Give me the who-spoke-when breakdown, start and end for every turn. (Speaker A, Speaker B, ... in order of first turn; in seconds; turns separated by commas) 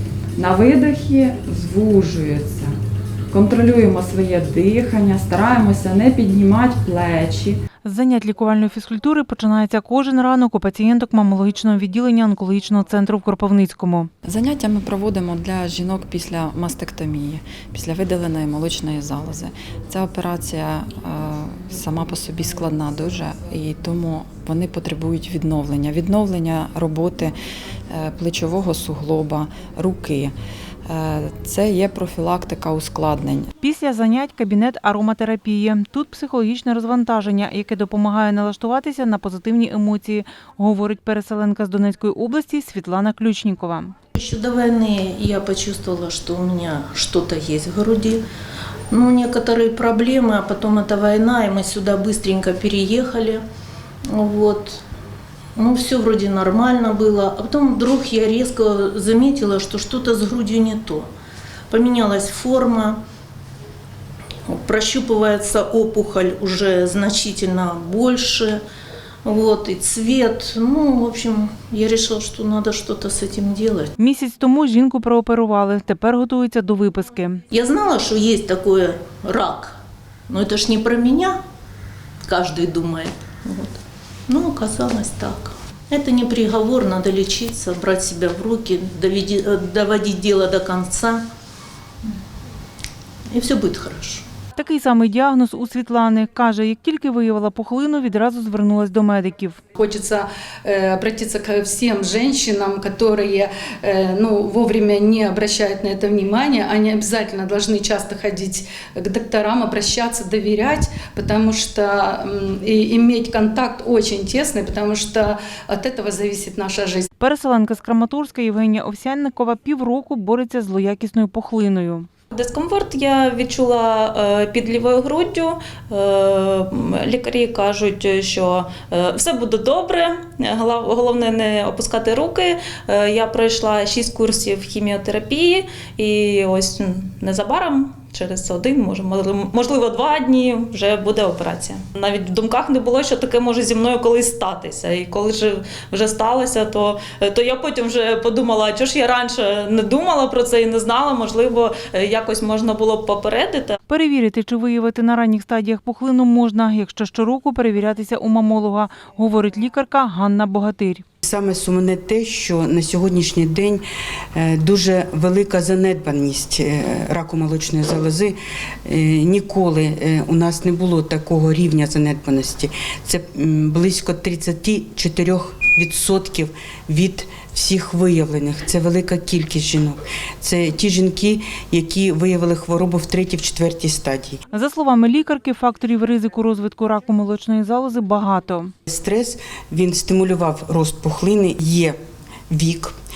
Speaker A: 0.4-2.7, Speaker A: 3.3-7.6, Speaker B: 7.8-14.1, Speaker A: 14.2-27.3, Speaker A: 27.9-30.3, Speaker A: 30.9-33.5, Speaker B: 33.6-44.0, Speaker C: 44.2-48.2, Speaker C: 48.9-53.5, Speaker C: 54.1-54.8, Speaker C: 55.6-61.1, Speaker C: 61.7-63.0, Speaker C: 64.5-68.6, Speaker C: 69.2-73.9, Speaker B: 74.0-77.4, Speaker C: 77.5-81.4, Speaker C: 82.2-91.2, Speaker C: 93.3-94.3, Speaker B: 94.6-99.6, Speaker D: 99.8-117.1, Speaker B: 117.2-122.1, Speaker E: 122.3-153.8, Speaker B: 153.9-161.0, Speaker F: 161.2-163.8, Speaker F: 164.3-184.4, Speaker B: 184.5-188.7, Speaker F: 188.9-192.0, Speaker F: 192.5-192.9